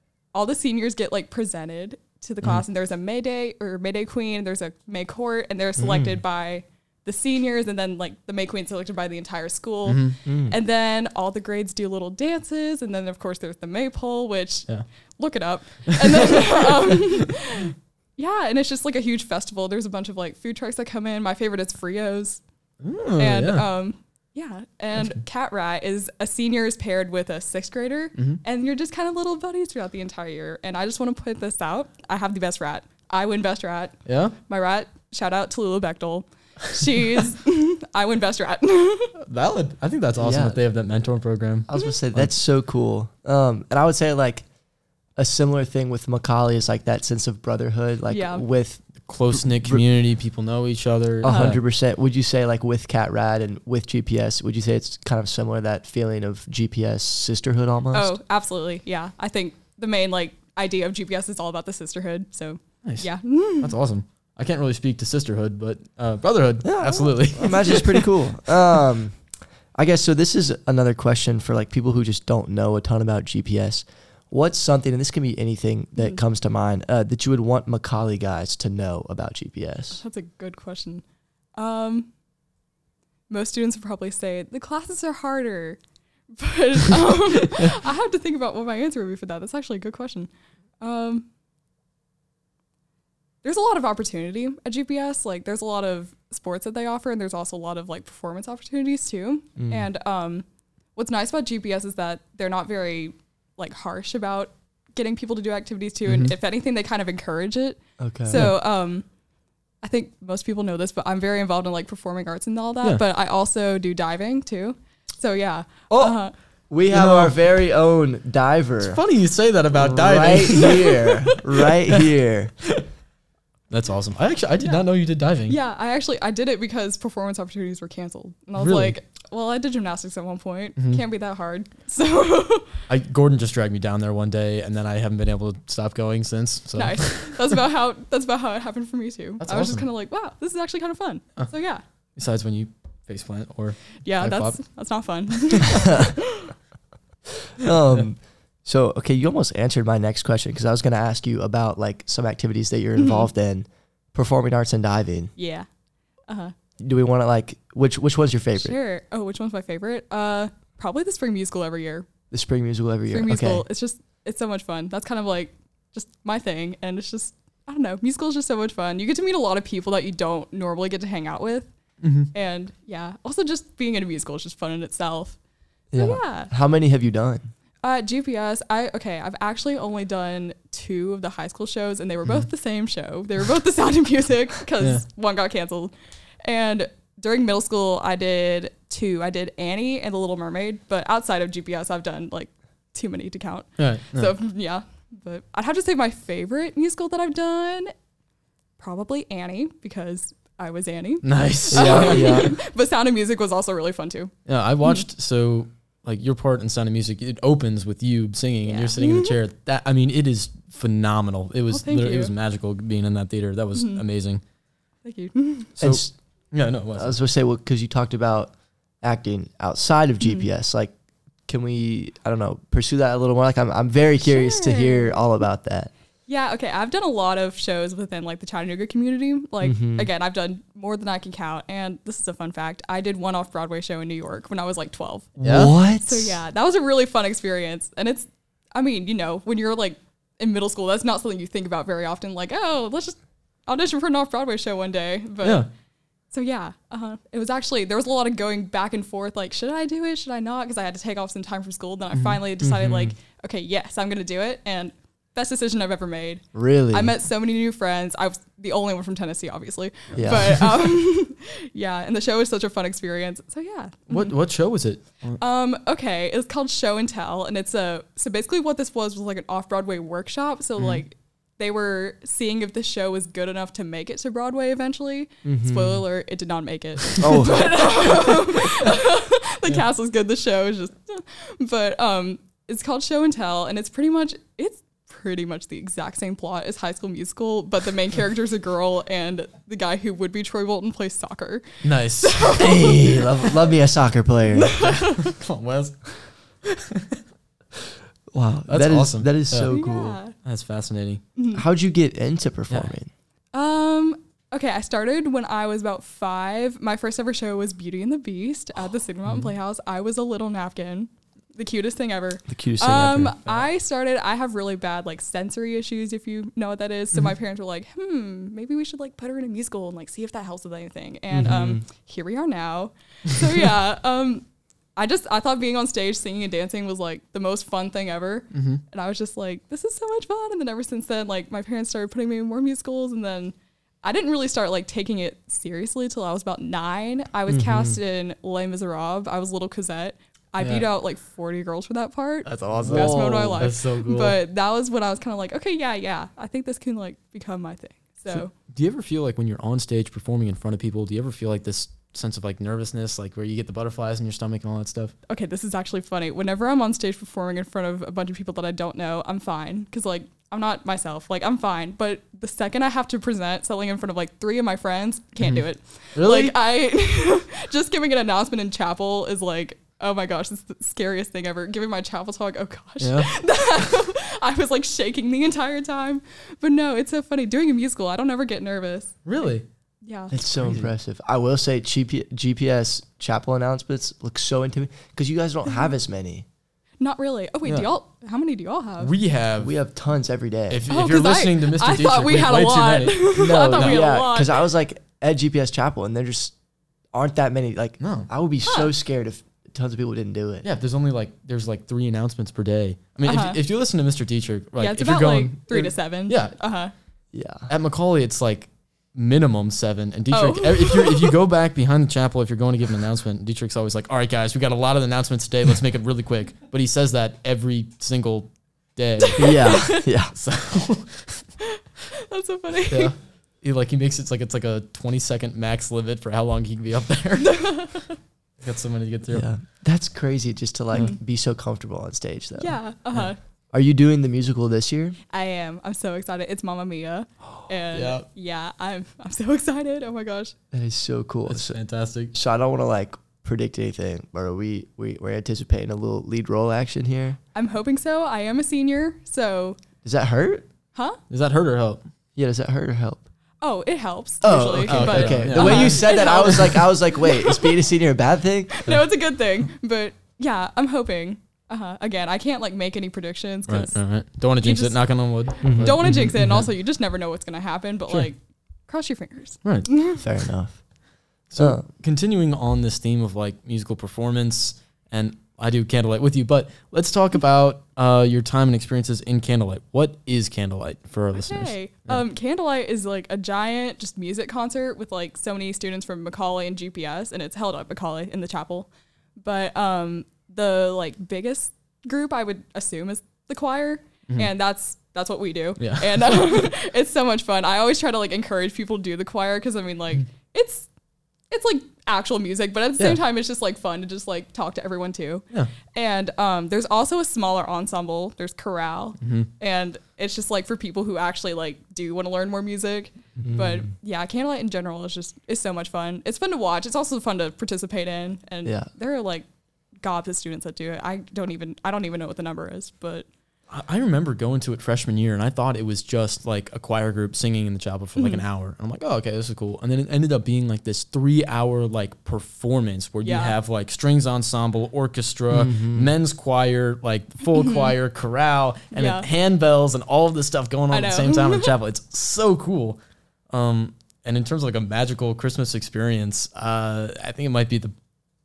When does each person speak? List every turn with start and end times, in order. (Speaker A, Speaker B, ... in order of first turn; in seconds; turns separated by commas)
Speaker A: 0.3-22.4, Speaker B: 5.8-6.2, Speaker C: 9.9-10.2, Speaker B: 10.3-10.6, Speaker C: 15.9-17.3, Speaker C: 22.8-23.7, Speaker A: 23.2-39.1, Speaker C: 34.1-34.4, Speaker C: 39.2-42.3, Speaker B: 40.2-40.6, Speaker B: 41.7-44.5, Speaker B: 45.2-49.8, Speaker A: 48.1-48.4, Speaker C: 49.0-51.6, Speaker B: 51.2-58.1, Speaker A: 51.2-51.5, Speaker A: 57.9-63.8, Speaker C: 62.8-68.1, Speaker B: 66.6-69.2, Speaker B: 69.8-80.0, Speaker A: 80.0-81.0, Speaker A: 81.6-82.1, Speaker A: 83.3-85.8, Speaker A: 86.4-91.3, Speaker A: 93.4-100.5, Speaker B: 99.6-99.8, Speaker A: 101.0-109.1, Speaker C: 106.1-106.3, Speaker B: 108.0-108.5, Speaker A: 109.8-116.3, Speaker B: 115.9-116.2, Speaker B: 116.7-119.0, Speaker C: 116.9-117.3, Speaker C: 118.8-121.2, Speaker B: 119.7-122.5, Speaker C: 123.7-125.6, Speaker A: 125.5-132.7, Speaker C: 128.6-128.9, Speaker C: 132.9-137.6, Speaker A: 136.8-141.8, Speaker C: 139.4-139.9, Speaker C: 142.2-144.6, Speaker A: 144.0-146.5, Speaker B: 145.7-146.1, Speaker B: 147.6-155.3, Speaker A: 153.0-153.3, Speaker A: 155.4-155.7, Speaker A: 156.3-156.5, Speaker B: 156.8-158.8, Speaker A: 158.6-162.1, Speaker B: 162.3-163.7, Speaker A: 163.1-171.7, Speaker C: 172.0-172.3, Speaker A: 172.3-175.4, Speaker B: 175.9-177.5, Speaker A: 176.0-176.5, Speaker A: 177.8-197.9, Speaker C: 193.8-194.3, Speaker A: 198.8-204.3, Speaker C: 201.2-202.4, Speaker B: 201.7-202.5, Speaker C: 204.5-214.4, Speaker A: 208.7-209.4, Speaker A: 211.7-212.3, Speaker A: 213.8-214.0, Speaker A: 215.1-215.7, Speaker C: 215.8-217.2, Speaker B: 215.8-216.1, Speaker B: 217.0-220.9, Speaker B: 221.5-225.9, Speaker A: 224.2-225.2, Speaker A: 226.3-235.4, Speaker B: 229.6-230.1, Speaker C: 235.4-235.7, Speaker B: 235.4-236.4, Speaker A: 236.0-245.7, Speaker C: 245.4-245.7, Speaker A: 246.3-264.3, Speaker B: 252.6-253.0, Speaker B: 256.5-257.1, Speaker C: 260.1-260.4, Speaker B: 260.2-260.6, Speaker C: 264.1-265.4, Speaker A: 265.4-293.6, Speaker B: 275.4-276.0, Speaker B: 277.2-277.9, Speaker C: 291.8-292.7, Speaker B: 292.6-294.8, Speaker A: 294.6-295.4, Speaker C: 294.8-297.2, Speaker B: 298.3-300.2, Speaker C: 298.7-299.7, Speaker A: 299.7-300.4, Speaker C: 300.4-301.2, Speaker A: 301.4-301.6, Speaker B: 301.5-303.1, Speaker A: 303.5-324.4, Speaker B: 312.5-313.4, Speaker B: 321.3-321.8, Speaker A: 325.0-348.5, Speaker C: 328.5-328.8, Speaker B: 337.5-338.0, Speaker C: 340.6-340.9, Speaker C: 342.4-344.4, Speaker B: 342.8-343.6, Speaker C: 348.3-355.1, Speaker A: 355.3-379.2, Speaker C: 365.4-366.6, Speaker C: 373.0-373.3, Speaker C: 379.2-379.6, Speaker A: 380.0-380.4, Speaker B: 380.3-386.5, Speaker C: 380.6-380.9, Speaker A: 387.0-389.1, Speaker C: 389.0-389.8, Speaker B: 389.6-390.8, Speaker C: 390.7-394.1, Speaker A: 390.9-394.6, Speaker B: 393.3-396.5, Speaker B: 397.1-400.7, Speaker C: 398.0-398.3, Speaker A: 398.7-398.9, Speaker C: 400.6-406.5, Speaker A: 403.3-403.6, Speaker A: 404.8-406.9, Speaker B: 407.3-407.7, Speaker C: 407.7-421.5, Speaker A: 410.3-411.4, Speaker A: 419.2-420.1, Speaker B: 419.4-420.3, Speaker A: 421.6-423.1, Speaker C: 422.9-427.9, Speaker A: 427.4-428.2, Speaker C: 428.6-429.5, Speaker B: 429.3-432.8, Speaker A: 432.6-433.4, Speaker B: 433.7-435.2, Speaker A: 435.3-440.5, Speaker C: 437.9-438.3, Speaker B: 440.7-441.8, Speaker C: 441.5-442.3, Speaker B: 442.3-447.4, Speaker A: 447.6-449.8, Speaker B: 450.0-450.7, Speaker A: 450.9-451.2, Speaker C: 451.3-452.0, Speaker B: 452.4-453.2, Speaker A: 453.6-457.8, Speaker B: 454.4-458.8, Speaker C: 454.9-456.3, Speaker A: 458.7-464.0, Speaker C: 463.7-466.7, Speaker A: 464.6-465.0, Speaker B: 465.6-466.0, Speaker A: 465.6-470.2, Speaker C: 469.6-469.9, Speaker B: 470.2-470.8, Speaker C: 471.5-482.2, Speaker B: 471.6-471.8, Speaker A: 481.3-500.9, Speaker C: 495.8-496.6, Speaker A: 501.5-519.5, Speaker C: 509.2-509.5, Speaker B: 513.4-513.9, Speaker A: 520.0-523.3, Speaker C: 523.7-543.0, Speaker A: 528.2-528.4, Speaker A: 533.2-533.5, Speaker B: 535.5-536.1, Speaker A: 537.5-538.0, Speaker A: 538.9-539.3, Speaker A: 540.9-541.7, Speaker C: 543.5-548.0